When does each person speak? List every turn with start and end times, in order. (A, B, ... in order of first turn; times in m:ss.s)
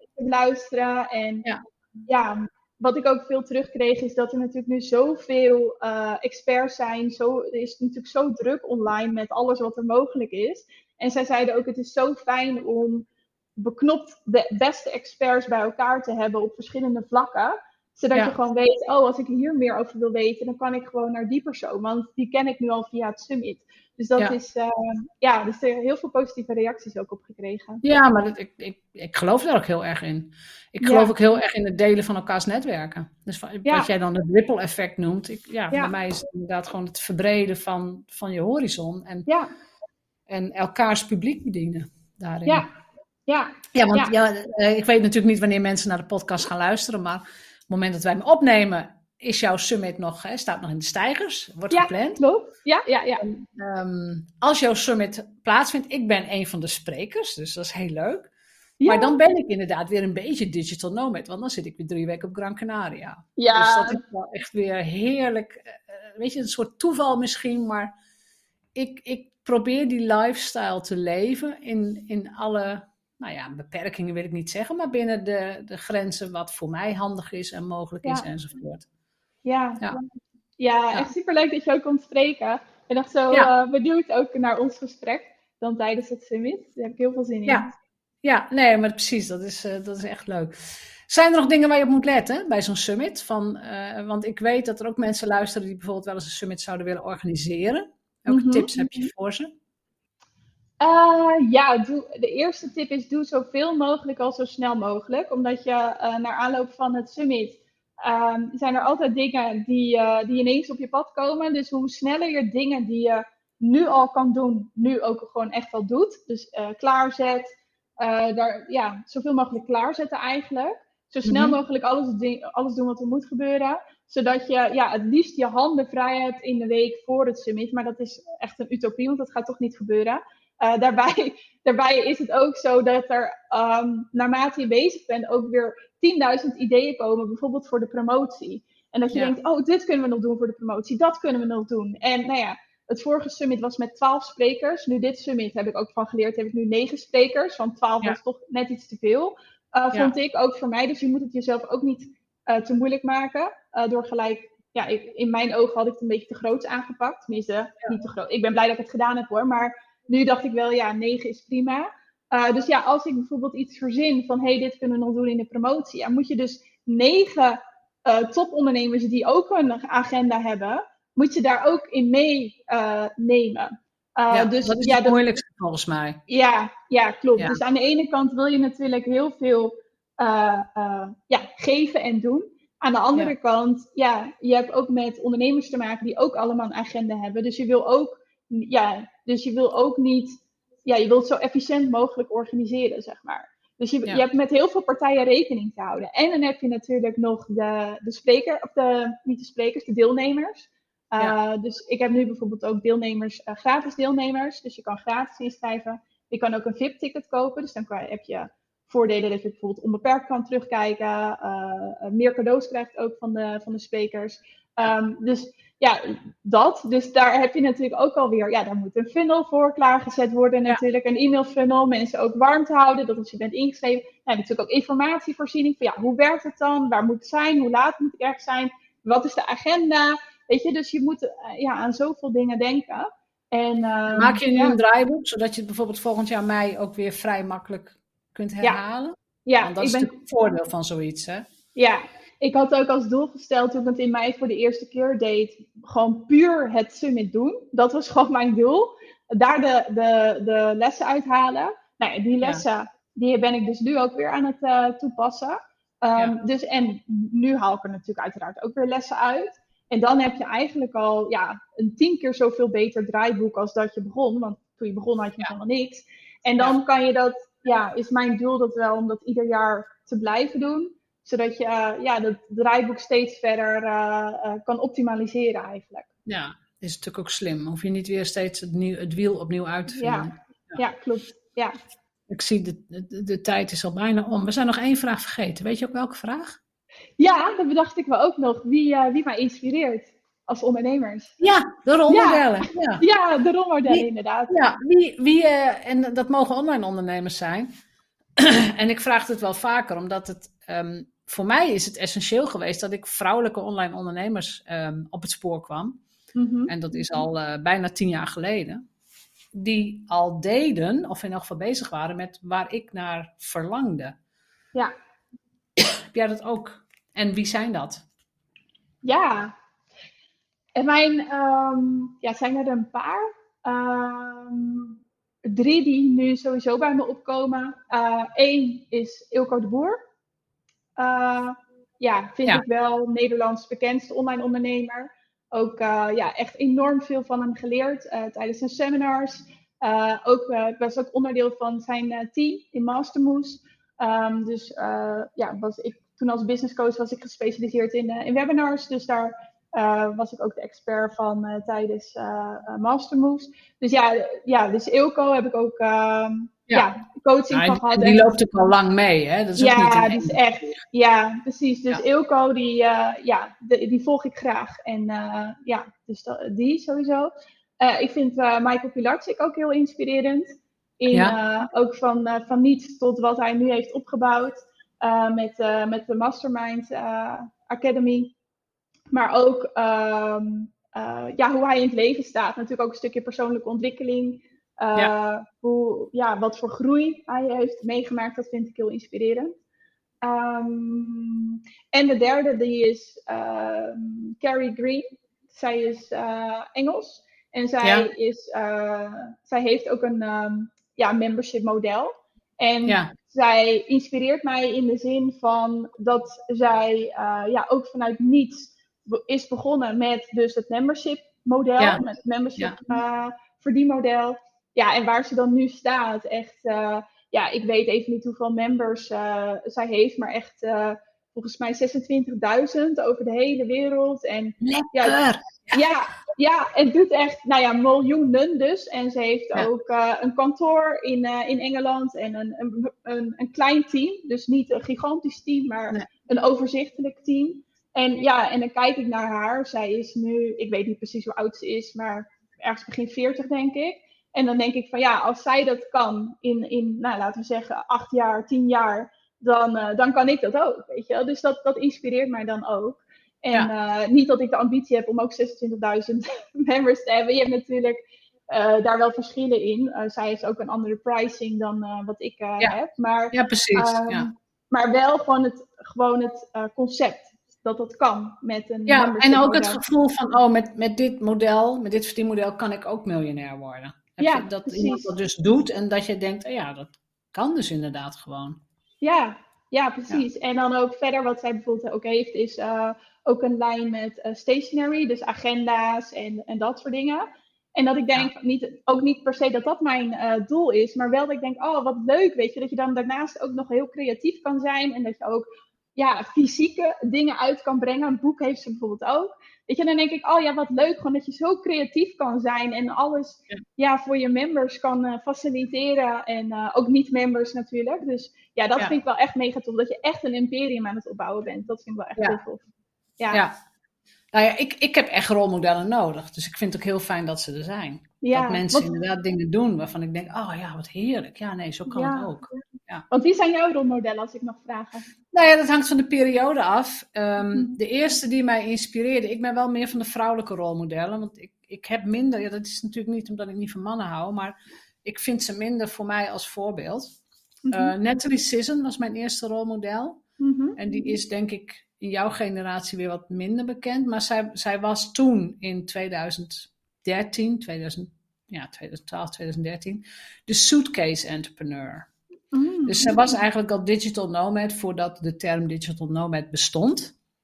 0:00.2-0:01.4 A
0:02.1-0:13.0 A
0:13.6-0:27.8 A
0:27.8-0:39.3 B
0:30.8-0:31.1 A
0:40.3-0:42.6 B
0:43.3-0:44.1 A
0:43.7-0:52.2 B
0:51.7-0:53.2 A
0:53.2-0:58.3 B
0:58.8-0:59.2 A
0:58.8-1:07.9 B
1:03.4-1:04.0 A
1:08.7-1:18.8 B
1:19.4-1:20.0 A
1:20.6-1:27.7 A
1:28.2-1:30.6 B
1:31.1-1:39.5 B
1:38.3-1:39.1 A
1:40.8-2:55.2 A
2:01.2-2:01.6 B
2:54.3-2:56.2 B
2:56.3-3:54.8 A
3:54.1-4:01.4 B
3:59.4-4:00.1 A
4:01.8-4:36.1 A
4:36.2-4:40.8 B
4:39.9-4:41.8 A
4:42.3-4:46.6 B
4:47.2-4:51.3 A
4:51.4-4:53.0 B
4:52.1-4:54.5 A
4:53.9-4:57.7 B
4:58.4-5:06.0 B
5:06.4-5:06.7 A
5:06.7-5:08.8 B
5:09.5-5:14.1 B
5:15.8-5:18.0 B
5:19.0-5:19.5 A
5:20.8-5:30.0 A
5:31.0-5:58.3 A
5:57.5-6:00.7 B
5:59.6-6:18.3 A
6:19.1-6:29.5 A
6:30.2-7:05.2 A
6:37.8-6:38.1 B
6:42.9-6:43.1 B
7:04.6-7:05.8 B
7:05.7-7:38.0 A
7:38.5-7:49.8 A
7:43.3-7:44.3 B
7:48.9-7:58.6 B
7:54.2-7:55.1 A
7:59.0-8:15.4 A
8:16.0-8:32.6 A
8:34.3-8:43.0 B
8:38.2-8:38.9 A
8:41.9-8:42.3 A
8:43.1-8:45.0 A
8:45.3-8:57.1 B
8:57.6-8:57.9 A
8:57.7-9:00.2 B
9:00.4-9:00.8 A
9:00.8-9:12.1 B
9:12.5-9:13.2 A
9:12.9-9:17.1 B